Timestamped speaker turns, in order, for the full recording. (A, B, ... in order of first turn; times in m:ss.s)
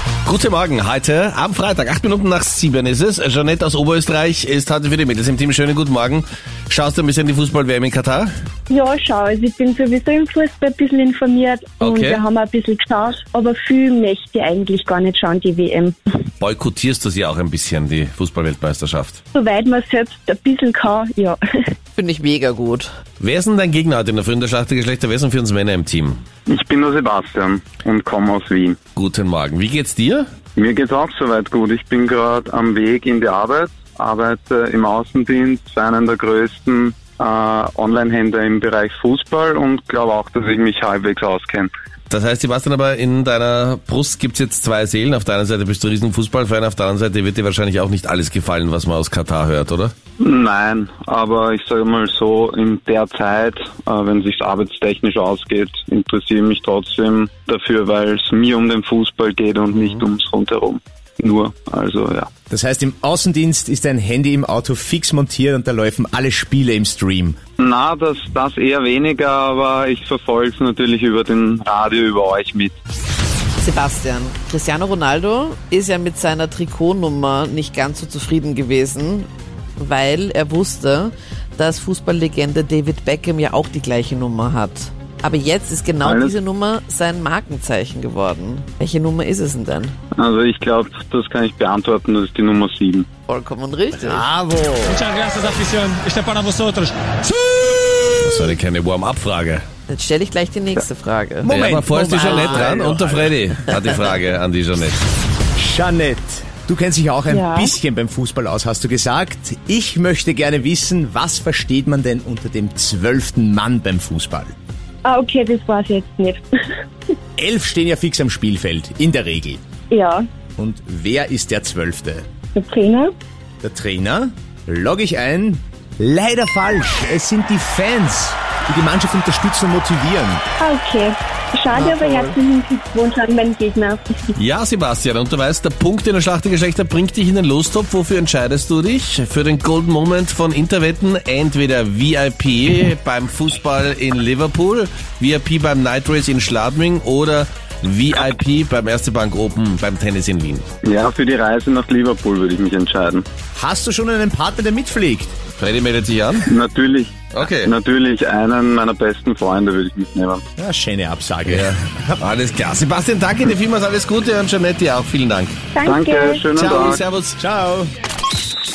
0:00.2-0:08.3 A
0:08.7-0:16.0 B
0:11.8-0:12.2 A
0:16.4-0:19.2 A
0:19.3-0:21.4 B
0:22.0-0:22.9 C
0:23.2-0:26.2 A
0:26.5-0:28.8 D
0:29.0-0:30.2 A
0:30.6-0:41.7 D
0:42.1-0:49.9 A
0:50.2-1:02.3 D
0:59.7-1:00.0 A
1:02.5-1:07.4 E
1:07.6-1:12.7 D
1:13.6-1:29.9 C
1:26.0-1:26.3 D
1:30.2-1:33.1 D
1:33.3-1:34.3 C
1:34.0-1:35.0 E
1:34.8-1:37.0 F
1:38.2-1:39.6 A
1:39.9-1:42.8 C
1:41.4-1:43.4 E
1:41.5-1:45.0 A
1:45.6-1:54.5 E
1:47.3-1:47.7 B
1:55.0-1:56.4 B
1:57.4-1:59.6 E
1:59.9-2:00.2 B
2:00.6-2:02.2 E
2:02.5-2:03.1 B
2:03.6-2:10.4 E
2:10.6-2:14.3 B
2:12.0-2:12.2 C
2:14.4-2:30.6 A
2:30.8-2:33.2 D
2:33.6-2:35.3 E
2:35.6-2:36.5 A
2:36.5-2:40.4 D
2:37.3-2:37.7 A
2:40.6-2:42.2 E
2:41.4-2:45.6 A
2:45.7-2:46.4 B
2:45.8-2:47.0 D
2:46.5-2:47.4 A
2:47.4-2:47.9 E